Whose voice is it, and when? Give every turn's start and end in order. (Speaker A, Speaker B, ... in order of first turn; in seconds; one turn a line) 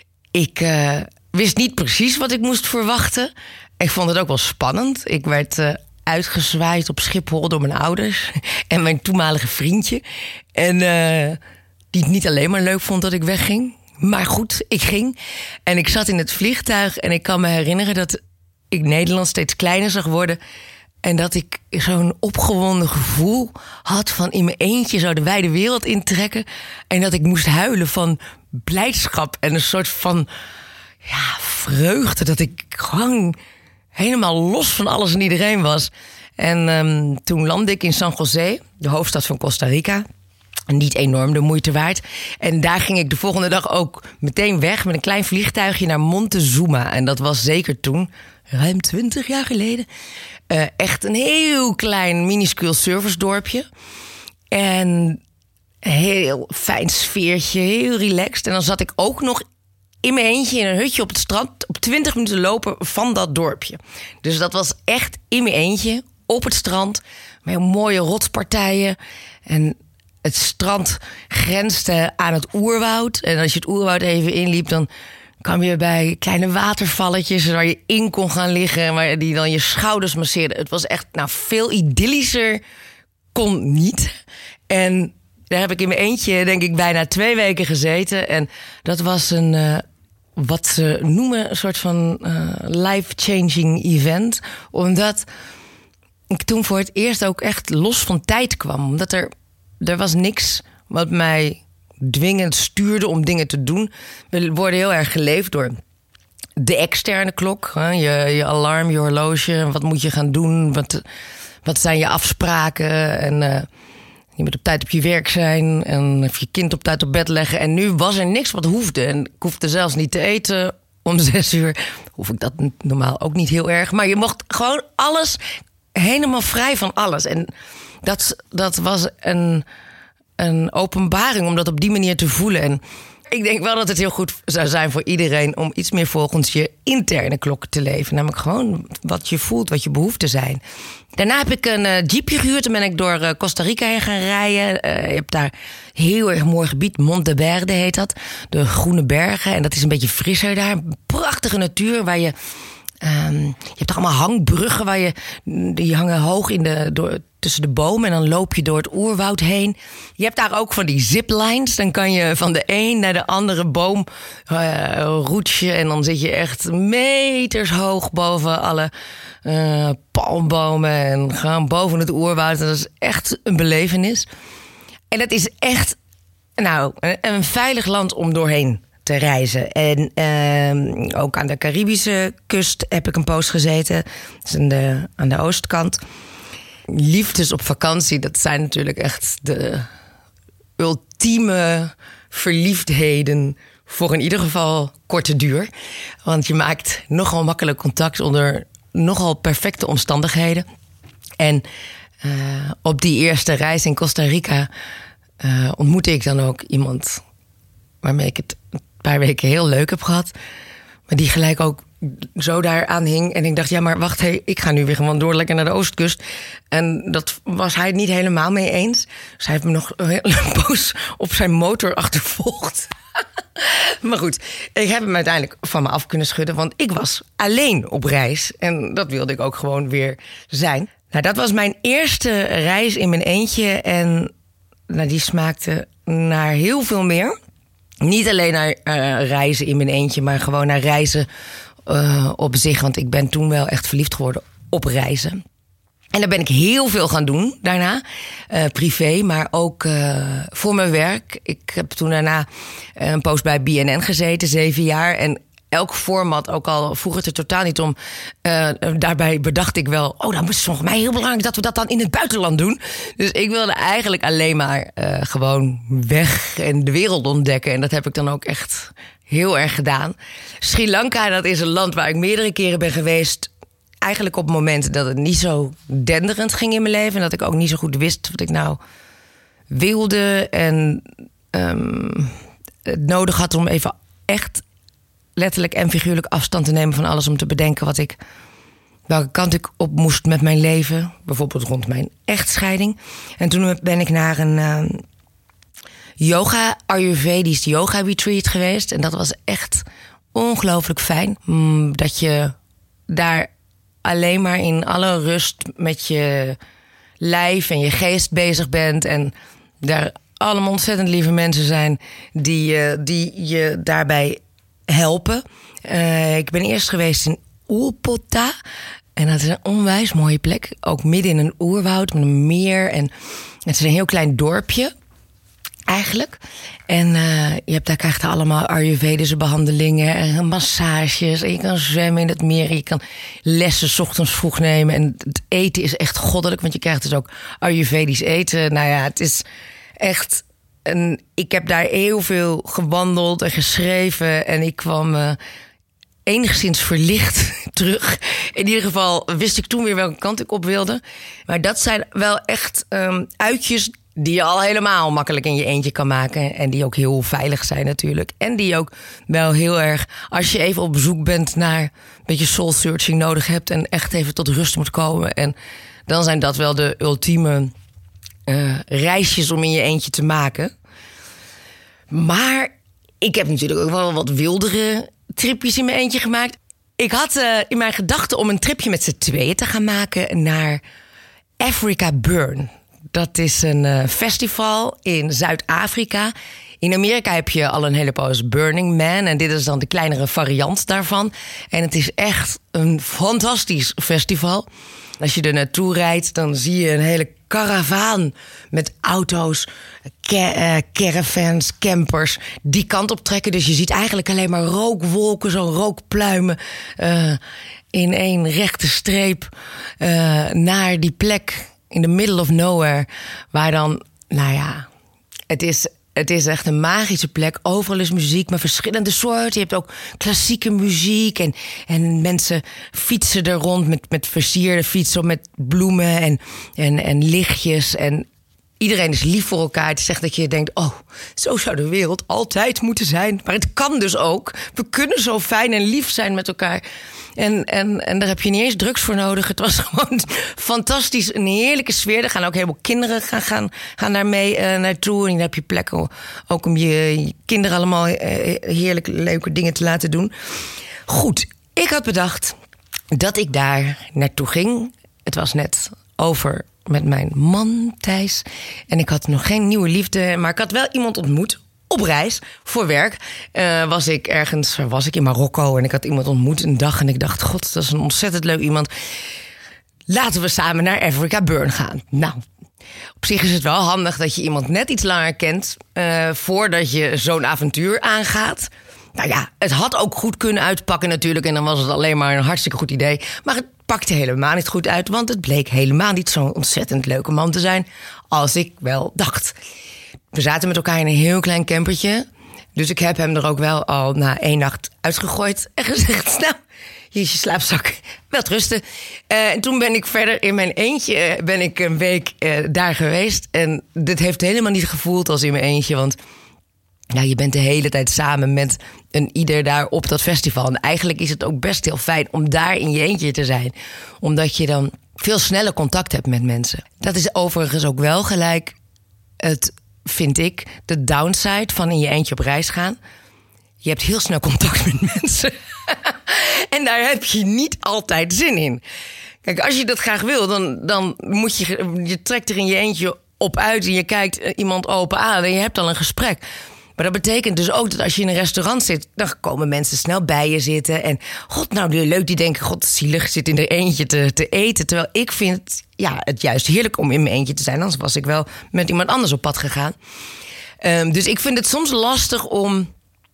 Speaker A: 0.3-10.0
Speaker A: 10.6-11.4
Speaker A: 11.9-18.2
Speaker A: 18.7-20.4
Speaker A: 21.0-30.3
Speaker A: 31.0-33.4
Speaker A: 34.0-40.1
Speaker A: 40.7-49.9
Speaker A: 50.5-53.7
Speaker A: 54.5-55.2
Speaker A: 55.8-59.4
Speaker A: 60.0-74.9
Speaker A: 75.4-82.6
Speaker A: 83.3-84.1
Speaker A: 84.7-89.8
Speaker A: 90.4-95.3
Speaker A: 96.3-105.8
Speaker A: 106.6-111.0
Speaker A: 111.6-113.7
Speaker A: 114.4-125.4
Speaker A: 126.0-127.5
Speaker A: 128.0-129.7
Speaker A: 130.4-140.6
Speaker A: 141.2-152.3
Speaker A: 153.0-168.9
Speaker A: 169.4-174.3
Speaker A: 175.1-176.0
Speaker A: 176.6-186.0
Speaker A: 186.9-189.9
Speaker A: 190.8-195.7
Speaker A: 196.2-200.7
Speaker A: 201.4-201.7
Speaker A: 202.2-204.7
Speaker A: 205.4-207.2
Speaker A: 208.0-210.3
Speaker A: 211.1-216.2
Speaker A: 216.7-222.9
Speaker A: 223.6-234.3
Speaker A: 234.9-237.3
Speaker A: 238.0-241.3
Speaker A: 241.9-245.4
Speaker A: 246.1-273.5
Speaker A: 274.0-278.8
Speaker A: 279.7-282.3
Speaker A: 282.9-284.6
Speaker A: 285.4-288.2
Speaker A: 289.1-295.0
Speaker A: 296.2-302.6
Speaker A: 303.1-303.5
Speaker A: 304.0-306.6
Speaker A: 307.2-318.5
Speaker A: 319.2-323.1
Speaker A: 323.7-324.9
Speaker A: 325.9-339.4
Speaker A: 340.0-345.4
Speaker A: 346.3-365.6
Speaker A: 366.1-367.7
Speaker A: 368.5-370.7
Speaker A: 372.1-380.8
Speaker A: 381.6-394.7
Speaker A: 395.2-399.7
Speaker A: 400.2-407.4
Speaker A: 407.9-409.5
Speaker A: 410.0-414.9
Speaker A: 415.5-428.3
Speaker A: 428.8-436.8
Speaker A: 437.4-450.3
Speaker A: 451.1-452.6
Speaker A: 453.1-468.9
Speaker A: 470.1-472.4
Speaker A: 473.2-489.6
Speaker A: 490.3-496.6
Speaker A: 497.1-506.2
Speaker A: 507.1-518.8
Speaker A: 519.4-523.0
Speaker A: 523.8-528.8
Speaker A: 529.5-536.4
Speaker A: 537.0-550.0
Speaker A: 550.8-552.9